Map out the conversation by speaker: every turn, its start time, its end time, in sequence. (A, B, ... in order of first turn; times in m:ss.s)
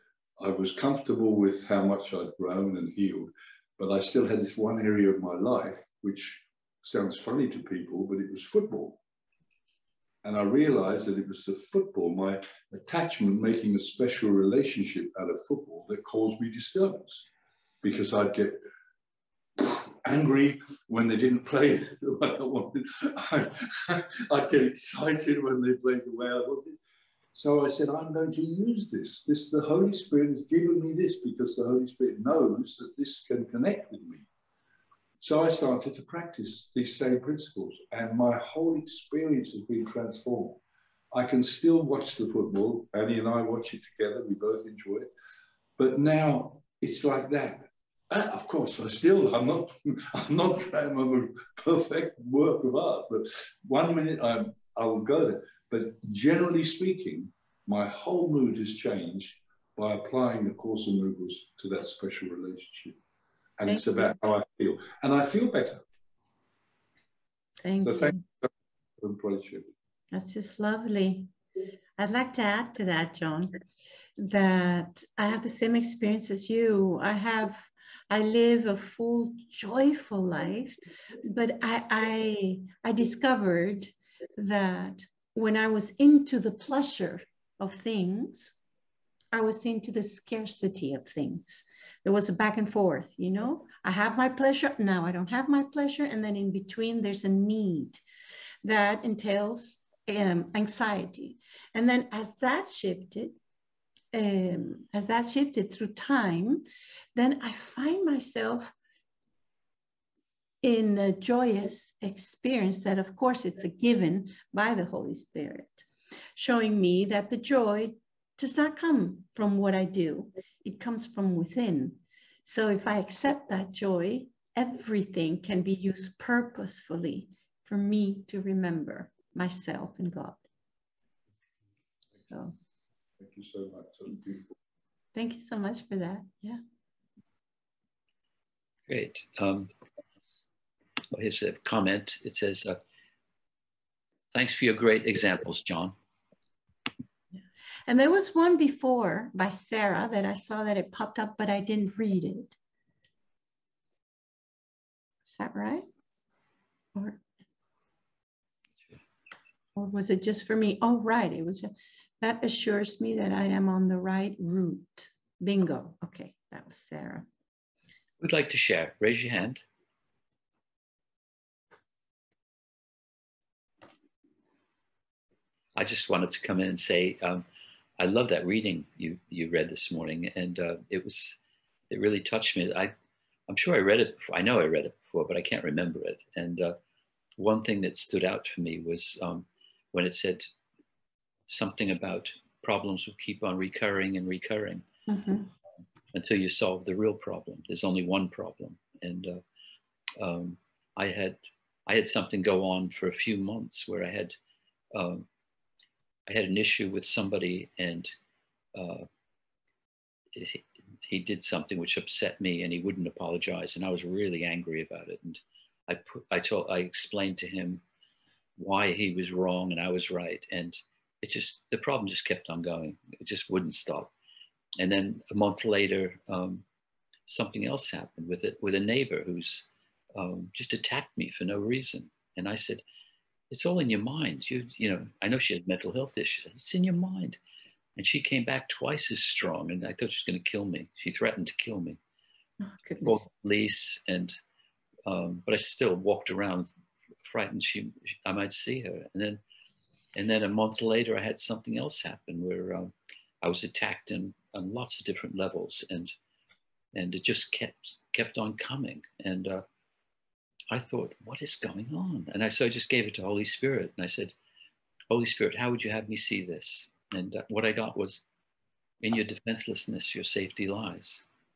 0:00.4-0:09.0 A
0:10.2-0:17.2 A
0:17.8-0:18.6 A
0:19.6-0:26.8 A
0:27.3-0:34.3 A
0:35.2-0:40.6 A
0:41.1-0:45.1 A
0:45.8-1:03.0 A
1:03.6-1:05.8 A
1:07.6-1:08.2 B
1:07.8-1:08.5 A
1:09.0-1:09.7 A
1:10.1-1:11.3 B
1:12.0-1:13.5 B
1:14.2-1:28.6 B
1:29.3-1:38.0 B
1:38.6-1:43.4 B
1:44.1-1:48.7 B
1:50.6-2:10.4 B
2:12.2-2:12.6 B
2:13.2-2:14.5 A
2:15.1-2:16.6 B
2:18.9-2:19.7 C
2:21.1-2:22.8 C
2:24.3-2:25.9 C
2:27.3-2:32.6 B
2:35.3-2:35.9 B
2:36.9-2:37.2 B
2:39.7-2:47.3 B
2:48.2-2:49.6 C
2:55.8-2:57.4 C
2:58.0-3:01.4 C
3:01.9-3:02.9 C
3:03.5-3:06.8 C
3:07.4-3:10.5 C
3:11.5-3:14.9 C
3:15.1-3:15.5 B
3:16.1-3:19.4 C
3:20.2-3:24.4 C
3:24.9-3:25.3 C
3:26.3-3:28.1 C
3:28.7-3:29.1 C
3:30.3-3:37.8 C
3:38.6-3:44.1 C
3:44.8-3:46.6 C
3:47.2-3:52.8 C
3:53.5-3:57.4 C
3:58.0-4:02.0 C
4:02.6-4:03.2 B
4:03.0-4:04.4 C
4:05.0-4:06.7 C
4:07.2-4:09.4 C
4:10.1-4:16.1 C
4:16.9-4:19.6 C
4:20.7-4:24.3 C
4:25.1-4:28.2 C
4:29.0-4:31.2 C